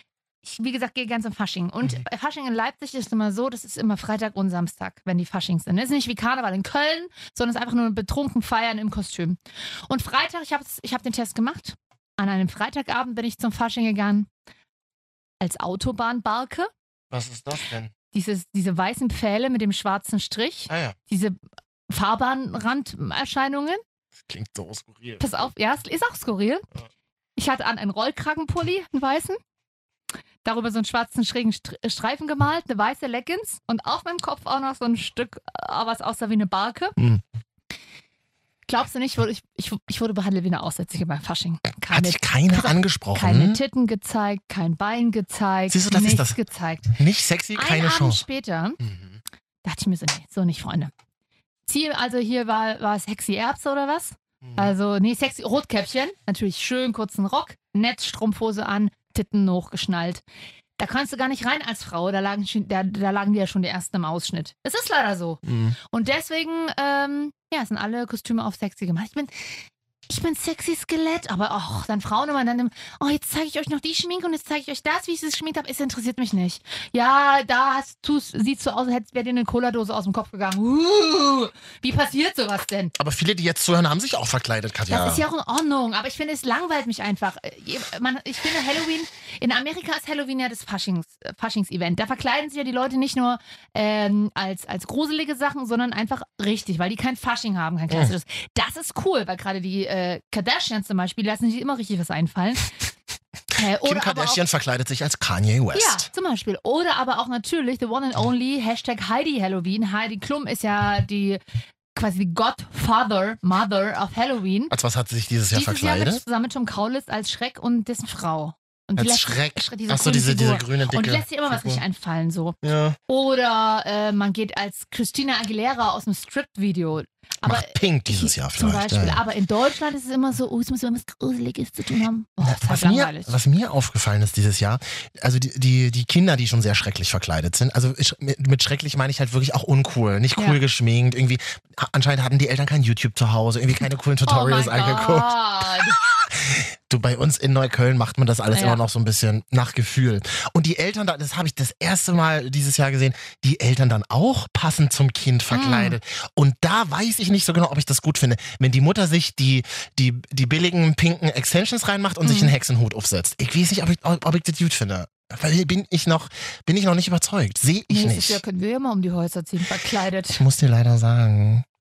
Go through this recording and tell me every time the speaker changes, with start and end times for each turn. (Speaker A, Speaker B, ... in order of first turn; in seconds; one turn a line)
Speaker A: 0.4-14.3
Speaker A: 15.4-16.7
Speaker B: 17.1-17.9
Speaker A: 18.1-23.8
Speaker B: 20.7-20.9
Speaker B: 24.3-25.4
Speaker A: 25.2-26.7
Speaker A: 27.4-29.4
Speaker A: 30.4-36.9
Speaker B: 37.0-37.2
Speaker A: 38.7-47.0
Speaker B: 41.9-43.6
Speaker B: 45.7-46.4
Speaker B: 46.9-48.2
Speaker A: 47.5-48.8
Speaker B: 48.8-49.2
Speaker A: 49.6-50.9
Speaker A: 51.6-60.2
Speaker B: 54.4-54.7
Speaker A: 60.8-82.9
Speaker B: 65.4-65.8
Speaker B: 83.0-85.2
Speaker A: 84.9-102.7
Speaker B: 97.9-98.1
Speaker A: 103.5-104.4
Speaker B: 103.8-106.1
Speaker A: 105.7-111.4
Speaker A: 111.9-114.7
Speaker B: 114.7-116.2
Speaker A: 115.5-122.6
Speaker B: 119.0-121.8
Speaker B: 122.6-123.0
Speaker A: 123.1-133.3
Speaker B: 127.4-129.2
Speaker B: 132.4-145.3
Speaker A: 140.3-140.6
Speaker A: 144.2-146.0
Speaker B: 146.3-168.4
Speaker A: 148.5-148.8
Speaker A: 155.5-156.0
Speaker A: 162.2-162.5
Speaker A: 167.9-170.4
Speaker B: 170.3-171.6